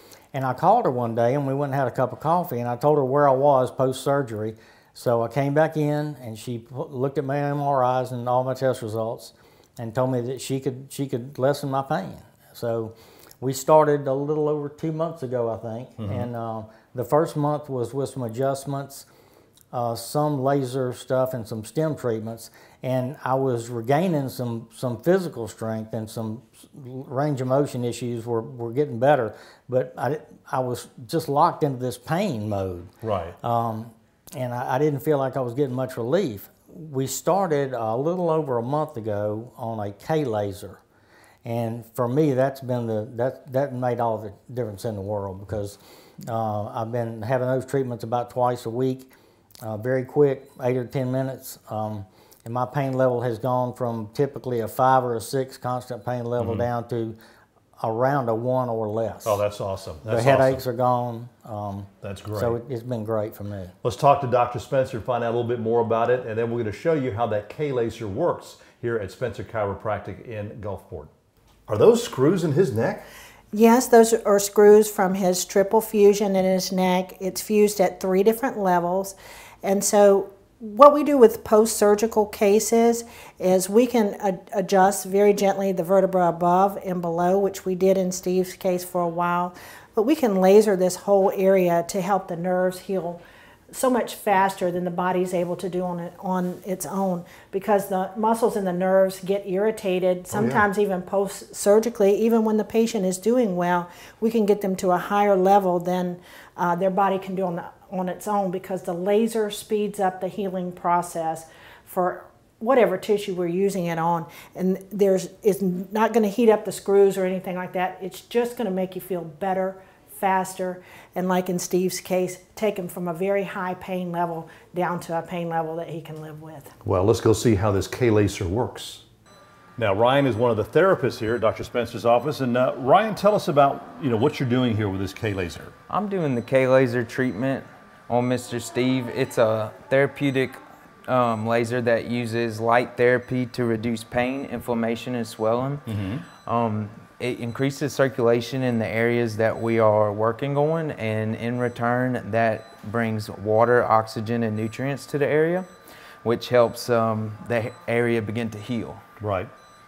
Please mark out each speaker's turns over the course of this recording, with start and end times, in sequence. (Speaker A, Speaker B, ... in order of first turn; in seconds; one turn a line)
Speaker A: 0.3-19.1
Speaker B: 16.0-16.3
Speaker A: 19.7-32.9
Speaker B: 33.0-33.4
Speaker A: 33.4-40.8
Speaker A: 41.4-49.1
Speaker A: 49.6-57.1
Speaker B: 56.4-56.7
Speaker A: 57.8-59.4
Speaker B: 59.2-60.6
Speaker A: 60.0-63.7
Speaker B: 62.0-62.6
Speaker B: 63.8-71.1
Speaker B: 71.7-73.0
Speaker C: 73.5-93.2
Speaker C: 93.7-126.7
Speaker B: 100.3-100.6
Speaker B: 126.8-129.0
Speaker B: 129.8-135.7
Speaker D: 135.9-145.8
Speaker B: 145.9-146.2
Speaker D: 146.4-155.7
Speaker D: 156.2-159.0
Speaker B: 159.2-159.5